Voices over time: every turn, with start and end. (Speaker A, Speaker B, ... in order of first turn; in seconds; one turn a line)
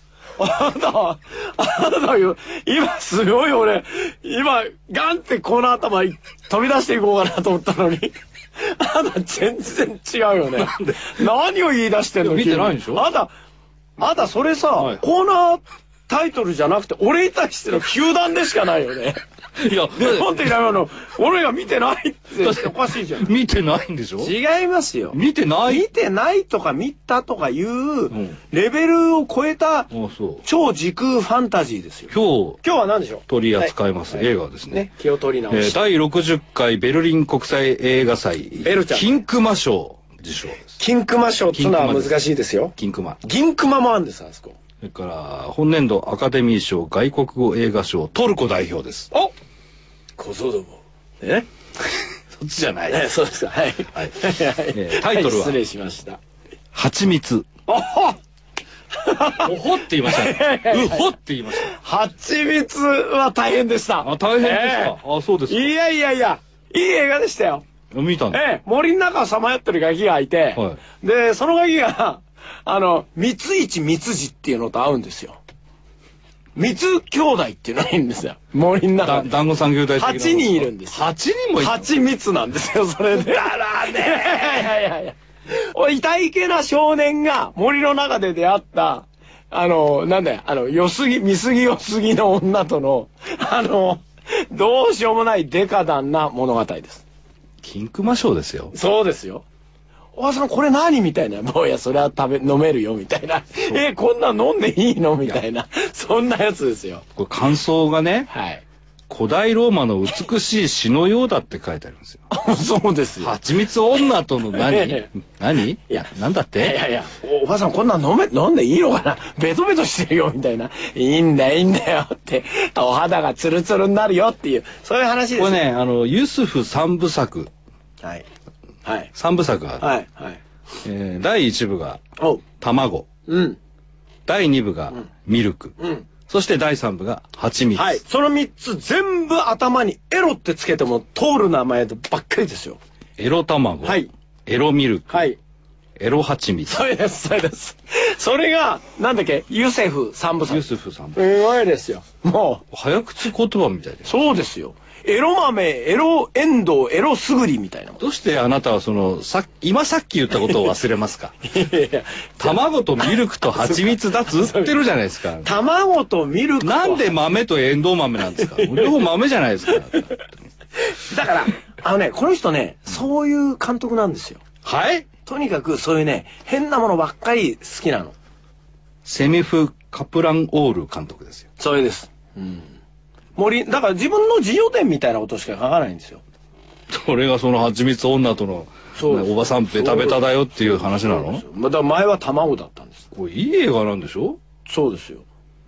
Speaker A: 0.4-13.3
Speaker B: 12.2-13.1
Speaker A: 14.0-19.2
Speaker B: 14.8-15.0
Speaker B: 19.6-20.4
Speaker A: 19.9-23.3
Speaker B: 22.4-24.3
Speaker A: 24.2-29.9
Speaker B: 25.1-25.9
Speaker B: 28.1-28.4
Speaker B: 29.9-30.4
Speaker A: 30.4-35.8
Speaker B: 32.1-32.6
Speaker B: 33.3-34.9
Speaker B: 35.5-40.7
Speaker A: 38.6-39.2
Speaker A: 40.8-44.6
Speaker B: 41.5-43.2
Speaker B: 44.8-49.1
Speaker A: 50.2-51.5
Speaker B: 52.3-53.1
Speaker A: 52.9-56.2
Speaker B: 54.7-55.5
Speaker B: 56.7-57.5
Speaker A: 57.7-58.2
Speaker A: 59.0-67.6
Speaker B: 59.4-61.7
Speaker B: 64.0-65.7
Speaker B: 67.9-68.4
Speaker A: 68.3-75.4
Speaker A: 76.5-79.4
Speaker B: 79.0-81.9
Speaker A: 79.9-81.0
Speaker A: 81.6-97.0
Speaker B: 97.6-98.7
Speaker A: 98.7-99.4
Speaker A: 100.2-107.0
Speaker B: 107.2-108.3
Speaker A: 108.3-108.6
Speaker B: 109.1-112.2
Speaker A: 112.3-113.3
Speaker B: 113.2-116.8
Speaker A: 114.5-115.1
Speaker A: 116.6-125.6
Speaker B: 125.3-127.5
Speaker A: 128.8-129.1
Speaker B: 129.1-129.8
Speaker A: 129.8-130.4
Speaker B: 130.8-132.0
Speaker A: 132.2-132.4
Speaker B: 132.6-133.1
Speaker A: 133.3-133.6
Speaker B: 134.2-138.0
Speaker A: 135.8-136.1
Speaker A: 137.7-142.8
Speaker B: 143.2-145.3
Speaker A: 143.8-144.1
Speaker A: 145.1-145.4
Speaker B: 146.0-146.8
Speaker A: 146.7-152.6
Speaker B: 150.5-151.2
Speaker B: 152.7-154.1
Speaker A: 154.0-158.0
Speaker B: 158.0-161.3
Speaker A: 161.4-164.8
Speaker B: 162.4-165.5
Speaker A: 165.4-167.2
Speaker B: 166.6-170.5
Speaker A: 168.4-169.0
Speaker A: 170.8-174.4
Speaker B: 174.6-175.1
Speaker A: 175.2-178.1
Speaker B: 179.0-181.4
Speaker A: 181.6-182.7
Speaker A: 183.3-186.2
Speaker B: 186.9-191.4
Speaker A: 188.9-193.1
Speaker B: 193.1-194.4
Speaker A: 194.7-195.2